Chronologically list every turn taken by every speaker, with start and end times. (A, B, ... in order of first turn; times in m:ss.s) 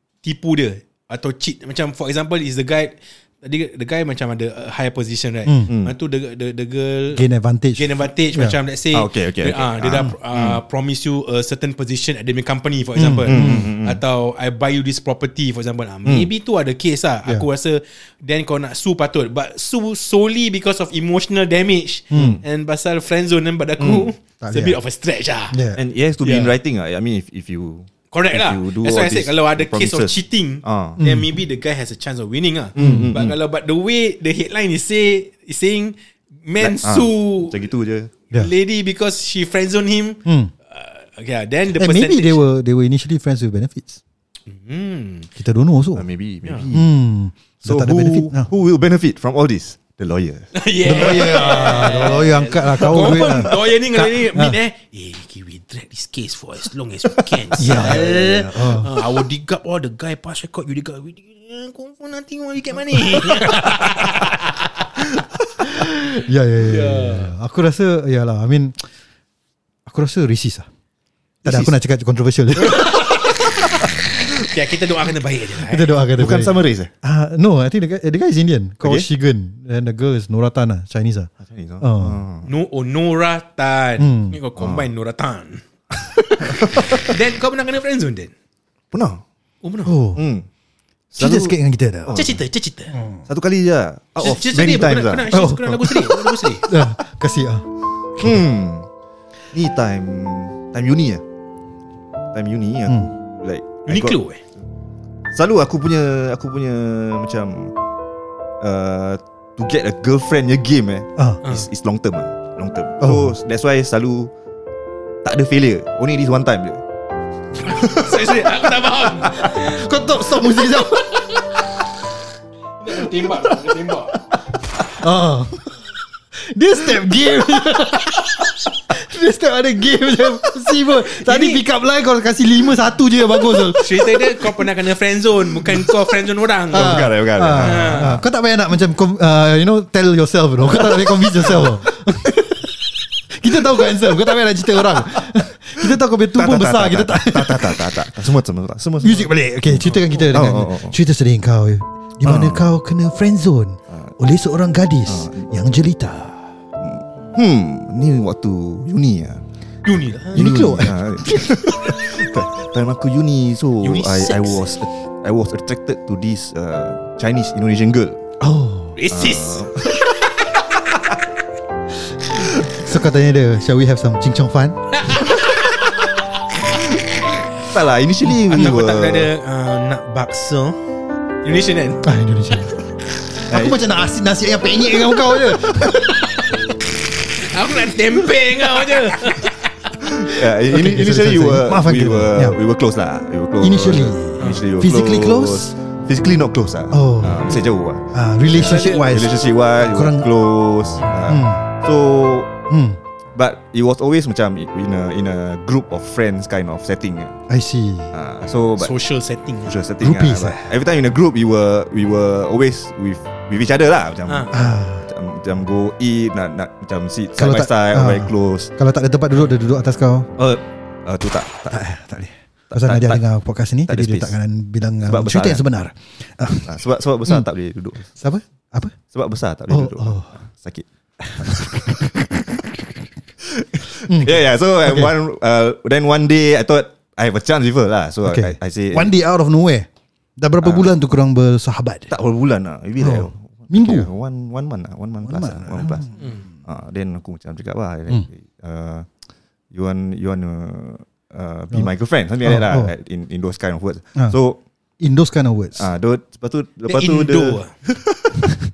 0:00.2-0:07.2 A
0:05.5-0:05.7 B
0:07.1-0:08.6 B
0:07.8-0:25.6 A
0:08.9-0:10.6 C
0:13.0-0:13.7 B
0:13.3-0:14.0 C
0:22.1-0:22.4 B
0:22.1-0:22.4 C
0:23.8-0:24.1 C
0:24.4-0:24.8 B
0:25.5-0:25.8 B
0:25.8-0:31.0 C
0:26.2-0:26.5 A
0:28.1-0:37.6 A
0:31.0-0:31.3 B
0:32.8-0:33.4 C
0:32.8-0:33.2 B
0:36.6-0:38.1 C
0:38.3-0:42.4 A
0:40.2-0:40.5 B
0:41.8-0:44.0 B
0:44.5-0:45.3 A
0:45.4-0:46.1 B
0:46.0-0:46.9 C
0:46.7-0:48.5 B
0:47.6-0:52.0 C
0:50.5-1:04.6 A
0:50.8-0:54.6 B
0:57.6-0:58.9 B
1:03.3-1:03.7 B
1:05.6-1:08.8 B
1:06.6-1:07.3 A
1:09.9-1:10.7 B
1:11.4-1:11.7 C
1:11.4-1:13.4 B
1:12.9-1:13.5 A
1:14.4-1:16.0 A
1:15.6-1:22.2 B
1:16.2-1:16.9 C
1:18.8-1:19.1 C
1:21.4-1:22.5 C
1:22.4-1:25.6 A
1:24.0-1:24.4 B
1:24.6-1:24.9 C
1:26.4-1:28.3 A
1:26.4-1:27.1 C
1:28.9-1:29.2 C
1:29.6-1:30.0 A
1:29.9-1:30.2 B
1:30.2-1:30.5 C
1:31.1-1:32.4 C
1:31.2-1:32.2 B
1:32.1-1:33.0 A
1:32.9-1:33.2 B
1:33.3-1:35.3 C
1:34.2-1:36.7 A
1:35.3-1:37.7 B
1:38.2-1:38.9 C
1:39.5-1:41.2 C
1:42.3-1:44.2 C
1:43.9-1:44.4 A
1:45.3-1:47.7 C
1:48.6-1:54.3 C
1:53.0-1:53.4 B
1:55.2-1:56.8 C
1:57.6-1:59.8 A
1:57.8-1:58.1 C
1:59.4-2:01.4 B
2:02.8-2:04.2 A
2:05.0-2:05.7 B
2:06.3-2:14.5 B
2:11.2-2:11.6 A
2:13.8-2:17.0 A
2:16.7-2:22.8 B
2:16.7-2:18.2 C
2:17.6-2:18.2 A
2:23.3-2:27.8 B
2:25.9-2:31.0 C
2:29.0-2:36.5 B
2:32.2-2:32.7 C
2:35.1-2:35.5 C
2:36.8-2:39.4 C
2:39.8-2:40.8 A
2:40.3-2:48.2 C
2:40.4-2:42.0 B
2:43.8-2:44.7 A
2:48.4-2:49.0 B
2:49.0-2:50.6 A
2:49.1-2:50.0 C
2:52.3-2:54.8 B
2:55.0-2:55.9 A
2:57.6-2:59.3 C
2:58.5-3:00.8 A
3:01.4-3:02.1 A
3:02.0-3:02.8 B
3:03.4-3:06.2 B
3:03.5-3:03.8 C
3:07.4-3:09.7 A
3:10.0-3:22.5 C
3:10.6-3:12.6 B
3:13.6-3:15.8 B
3:16.9-3:20.3 B
3:18.6-3:19.1 A
3:21.3-3:21.6 B
3:22.7-3:23.0 B
3:23.4-3:27.4 C
3:27.5-3:28.1 B
3:28.1-3:28.9 C
3:28.8-3:29.8 A
3:29.7-3:38.7 C
3:30.0-3:30.7 B
3:34.3-3:34.5 A
3:34.5-3:35.1 B
3:37.4-3:40.3 B
3:40.4-3:41.8 C
3:41.7-3:47.5 B
3:42.7-3:43.2 C
3:43.9-3:44.3 C
3:45.0-3:45.6 C
3:46.5-3:48.1 C
3:48.2-3:49.0 B
3:49.1-3:50.8 C
3:49.7-3:50.3 B
3:51.2-3:52.3 B
3:51.4-3:52.2 C
3:53.5-3:59.1 C
3:54.0-3:55.2 B
3:58.2-4:02.1 B
4:00.6-4:00.9 C
4:02.1-4:06.1 C
4:03.0-4:04.1 B
4:05.2-4:06.2 B
4:06.2-4:06.4 A
4:06.6-4:09.1 C
4:09.7-4:14.6 C
4:12.4-4:12.9 B
4:15.0-4:15.9 B
4:15.8-4:18.5 C
4:16.9-4:17.7 A